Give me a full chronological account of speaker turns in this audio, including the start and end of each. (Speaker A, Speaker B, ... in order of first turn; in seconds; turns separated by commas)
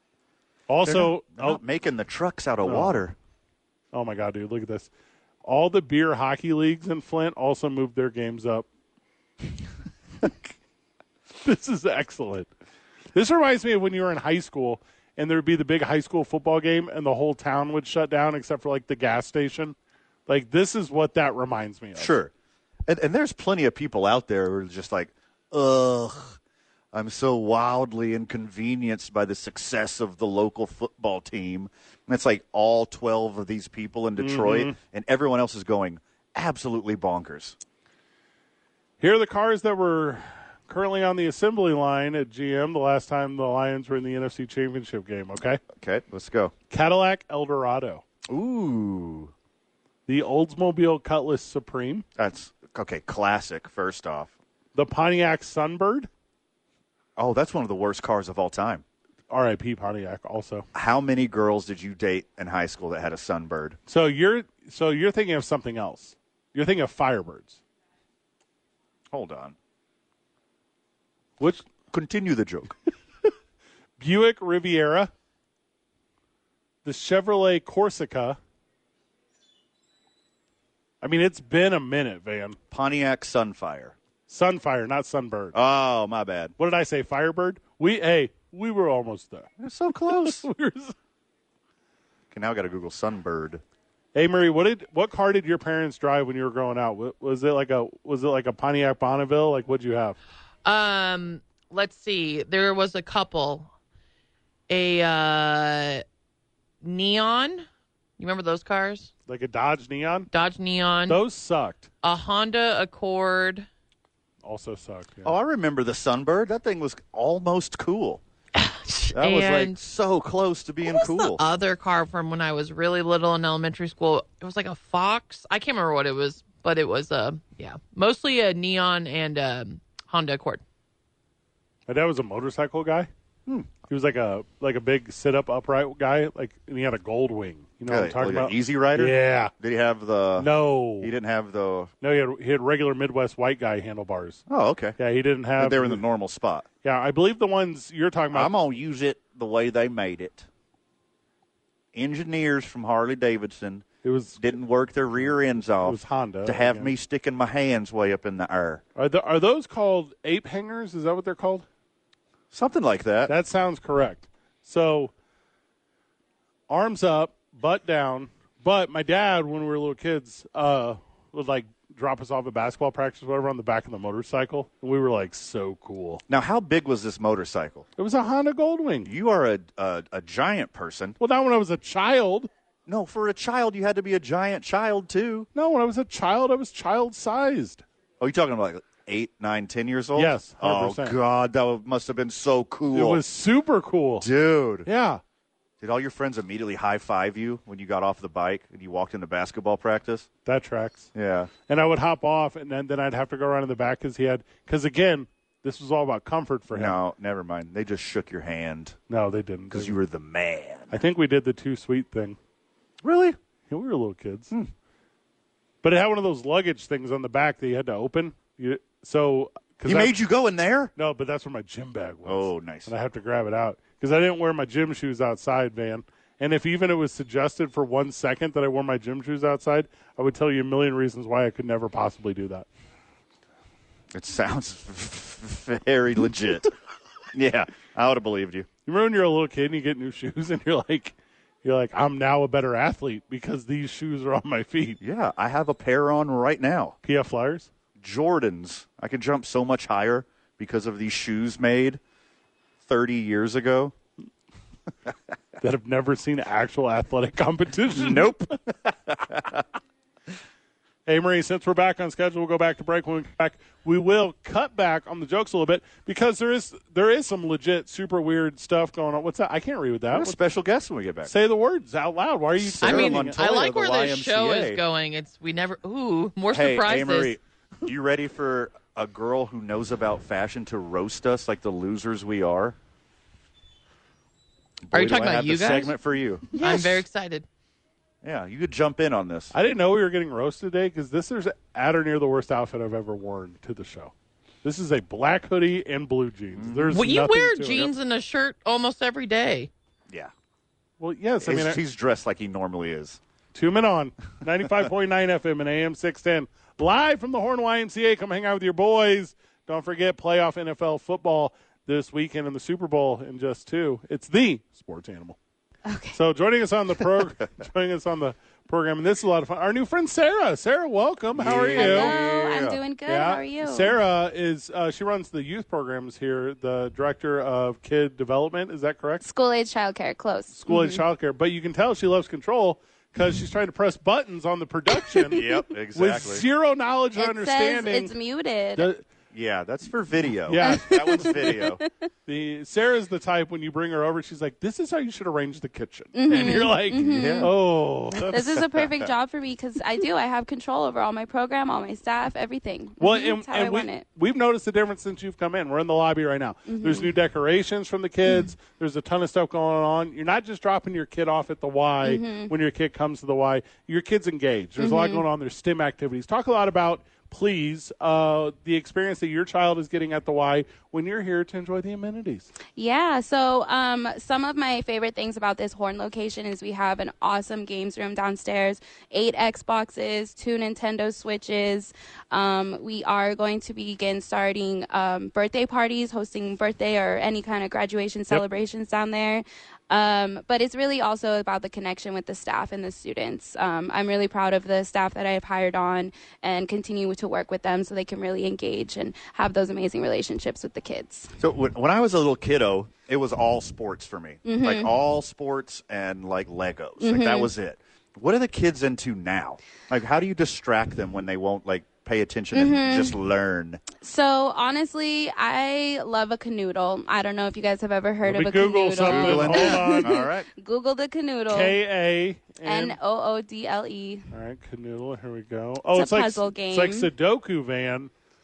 Speaker A: 0.7-1.6, Speaker B: 0.8-3.1, Speaker A: 2.6-3.0, Speaker A: 3.9-4.9, Speaker A: 5.4-8.7, Speaker A: 11.4-12.5, Speaker A: 13.2-19.8, Speaker A: 20.3-22.1, Speaker B: 22.0-22.3, Speaker B: 22.9-26.4, Speaker B: 26.9-37.6, Speaker A: 34.2-34.8, Speaker A: 39.0-45.6, Speaker B: 45.8-46.5, Speaker A: 46.7-48.0, Speaker B: 48.3-49.3, Speaker A: 50.1-52.0, Speaker B: 52.2-54.3, Speaker A: 54.8-56.1, Speaker B: 57.2-58.8, Speaker A: 59.3-60.7, Speaker B: 60.7-63.8, Speaker A: 63.9-67.6, Speaker B: 69.1-69.6, Speaker A: 71.4-71.7, Speaker B: 71.9-72.8, Speaker A: 74.0-75.1, Speaker A: 76.8-78.4, Speaker A: 81.0-82.6, Speaker B: 82.7-84.0, Speaker A: 84.3-85.6, Speaker B: 85.5-86.5, Speaker A: 86.6-89.5, Speaker B: 89.6-90.5, Speaker A: 90.1-91.0, Speaker B: 92.3-93.6, Speaker A: 94.2-100.2, Speaker C: 100.7-103.7, Speaker C: 104.7-106.0, Speaker C: 106.8-107.7, Speaker C: 108.2-109.1, Speaker A: 109.3-110.3, Speaker C: 110.3-111.2, Speaker A: 111.1-111.9, Speaker C: 112.0-113.7, Speaker A: 114.4-115.3, Speaker B: 115.2-118.2, Speaker C: 118.5-119.8, Speaker B: 119.1-121.4, Speaker C: 120.8-130.6, Speaker A: 131.9-133.1, Speaker A: 133.9-139.5, Speaker B: 137.9-141.9, Speaker A: 140.4-141.1, Speaker A: 142.0-144.4, Speaker B: 144.5-145.0, Speaker A: 145.0-146.0, Speaker B: 145.6-146.7, Speaker A: 146.8-148.5, Speaker B: 148.3-150.5, Speaker B: 151.9-153.9, Speaker A: 154.0-154.4, Speaker B: 154.4-158.8, Speaker A: 155.8-156.9, Speaker A: 159.0-161.7, Speaker B: 162.5-163.3, Speaker A: 163.3-165.1, Speaker A: 166.7-176.2, Speaker B: 176.3-177.9, Speaker A: 178.0-179.1, Speaker B: 179.1-181.2, Speaker A: 181.2-182.5, Speaker B: 182.9-185.5, Speaker A: 185.6-187.8, Speaker B: 188.2-193.2, Speaker A: 190.2-191.2, Speaker A: 192.9-194.3, Speaker B: 194.2-194.9, Speaker A: 194.8-195.2, Speaker B: 195.8-200.3, Speaker A: 200.4-201.1, Speaker B: 201.2-201.5, Speaker A: 201.7-207.0, Speaker B: 206.7-209.0, Speaker A: 209.1-210.0, Speaker B: 209.7-211.0, Speaker A: 210.9-212.4, Speaker B: 213.0-213.4, Speaker A: 213.7-214.5, Speaker A: 215.8-220.2, Speaker B: 219.8-220.9, Speaker A: 221.0-232.7, Speaker B: 222.2-222.9, Speaker B: 234.1-236.7, Speaker B: 237.3-238.7, Speaker A: 238.9-245.0, Speaker B: 245.0-247.0, Speaker A: 247.0-247.7, Speaker B: 248.0-252.0, Speaker B: 252.8-253.9, Speaker A: 255.6-258.4, Speaker B: 257.9-259.6, Speaker A: 261.1-270.4, Speaker B: 270.1-271.3, Speaker A: 271.2-273.4, Speaker B: 272.6-274.8, Speaker C: 272.8-277.4, Speaker B: 276.5-282.8, Speaker B: 284.9-287.1, Speaker C: 284.9-285.9, Speaker C: 286.5-287.5, Speaker B: 288.2-289.5, Speaker A: 289.5-294.1, Speaker A: 294.6-297.9, Speaker B: 296.6-297.0, Speaker C: 296.9-299.7, Speaker A: 301.0-301.8, Speaker B: 301.4-303.2, Speaker A: 303.5-315.4, Speaker D: 315.9-316.2, Speaker A: 316.1-322.2, Speaker B: 321.4-322.8, Speaker D: 321.7-324.0, Speaker A: 323.1-329.2, Speaker D: 329.2-331.0, Speaker A: 330.6-338.1, Speaker B: 335.3-336.5, Speaker D: 337.2-338.9, Speaker A: 338.8-339.0, Speaker B: 339.3-341.8, Speaker A: 340.5-341.6, Speaker D: 340.6-341.9, Speaker A: 342.3-348.6, Speaker D: 346.1-347.5, Speaker B: 347.1-347.5, Speaker D: 348.2-354.1, Speaker B: 348.6-349.0, Speaker A: 353.0-372.5, Speaker D: 356.7-357.1, Speaker D: 362.0-362.5, Speaker D: 364.8-365.3, Speaker D: 372.8-401.3, Speaker B: 401.4-413.8, Speaker D: 404.4-404.9, Speaker D: 407.0-407.5, Speaker D: 412.5-413.2, Speaker D: 414.0-421.8, Speaker A: 418.2-420.2, Speaker B: 419.0-420.5, Speaker A: 421.5-423.0, Speaker D: 422.6-424.2, Speaker A: 424.3-428.1, Speaker D: 425.9-427.1